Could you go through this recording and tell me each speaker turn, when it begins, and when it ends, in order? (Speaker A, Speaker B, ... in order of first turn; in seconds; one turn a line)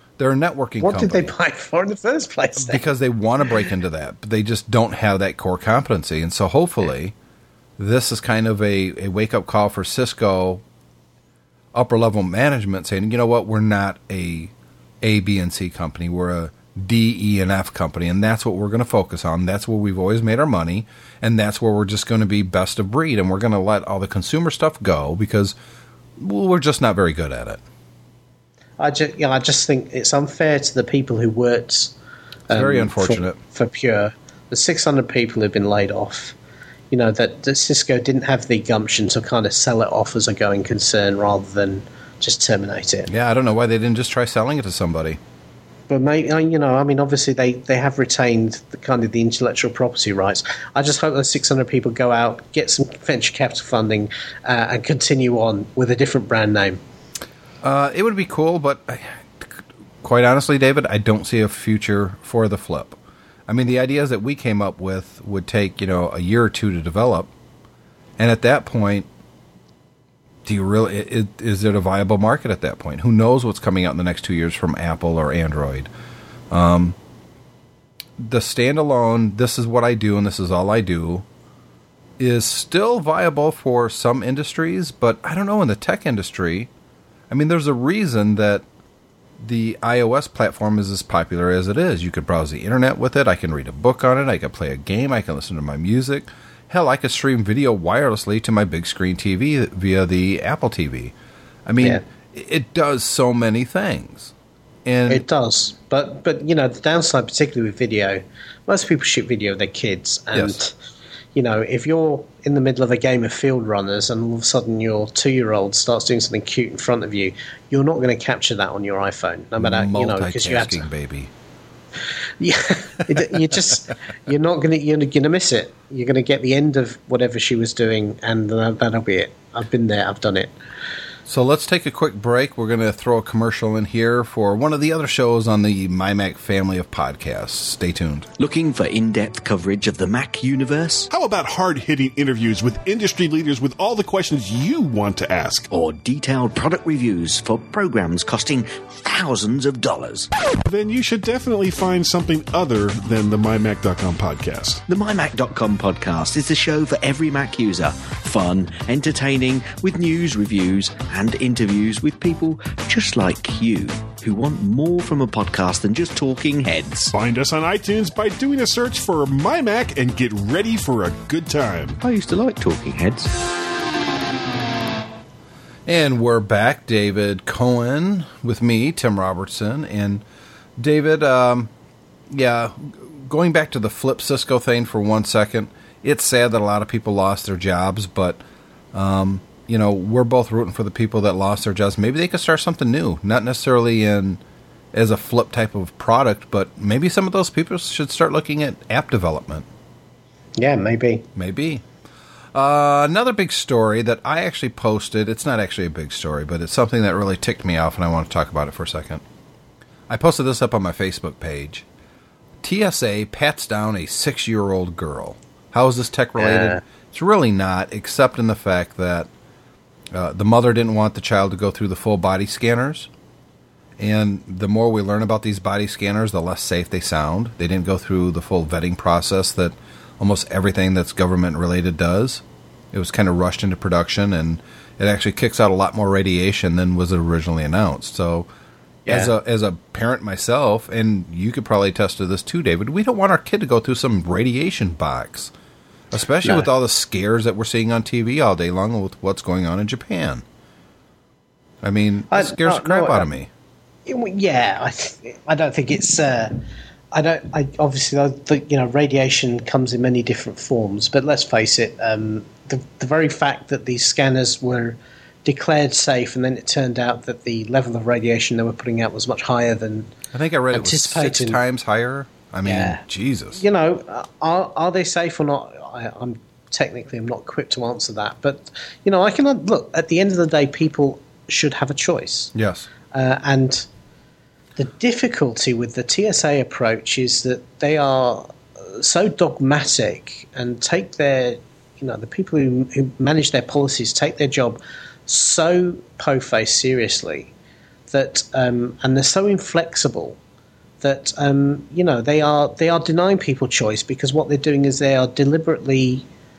Speaker A: 0.2-1.3
Speaker B: 0.8-2.8
Speaker A: 2.6-7.1
Speaker A: 7.8-10.6
Speaker A: 11.7-25.6
Speaker A: 26.2-27.6
Speaker B: 28.8-31.9
Speaker A: 32.5-33.4
Speaker B: 32.5-36.4
Speaker B: 36.9-43.1
Speaker A: 43.1-45.2
Speaker B: 45.9-56.8
Speaker A: 57.6-63.0
Speaker A: 63.5-67.3
Speaker A: 68.2-69.1
Speaker A: 70.5-75.9
Speaker A: 76.5-77.0
Speaker A: 78.2-81.2
Speaker A: 82.2-86.7
Speaker A: 87.3-88.6
Speaker A: 89.4-101.1
Speaker A: 101.7-104.3
Speaker A: 104.8-105.2
Speaker B: 105.1-110.7
Speaker A: 110.3-110.6
Speaker B: 111.3-120.9
Speaker A: 119.6-121.3
Speaker B: 122.4-130.5
Speaker A: 131.3-138.3
Speaker C: 138.4-141.1
Speaker D: 141.1-145.7
Speaker C: 145.7-150.3
Speaker D: 150.7-154.8
Speaker C: 154.9-167.1
Speaker D: 167.1-172.0
Speaker C: 172.0-173.3
Speaker A: 175.9-180.2
Speaker A: 180.8-181.7
Speaker A: 182.3-188.4
Speaker A: 188.9-194.4
Speaker A: 194.9-199.7
Speaker B: 200.6-201.3
Speaker A: 201.4-201.8
Speaker A: 202.5-209.2
Speaker A: 210.1-211.8
Speaker A: 212.6-219.3
Speaker B: 216.4-216.8
Speaker A: 220.1-223.1
Speaker A: 224.0-238.5
Speaker B: 239.1-239.3
Speaker A: 239.1-245.5
Speaker A: 246.1-250.4
Speaker A: 251.8-253.5
Speaker B: 252.3-253.3
Speaker B: 254.1-270.1
Speaker A: 270.3-273.6
Speaker B: 270.7-271.6
Speaker B: 272.6-273.0
Speaker B: 273.6-282.5
Speaker A: 282.5-282.9
Speaker B: 283.1-283.9
Speaker B: 284.8-297.5
Speaker B: 298.1-300.4
Speaker B: 301.0-306.2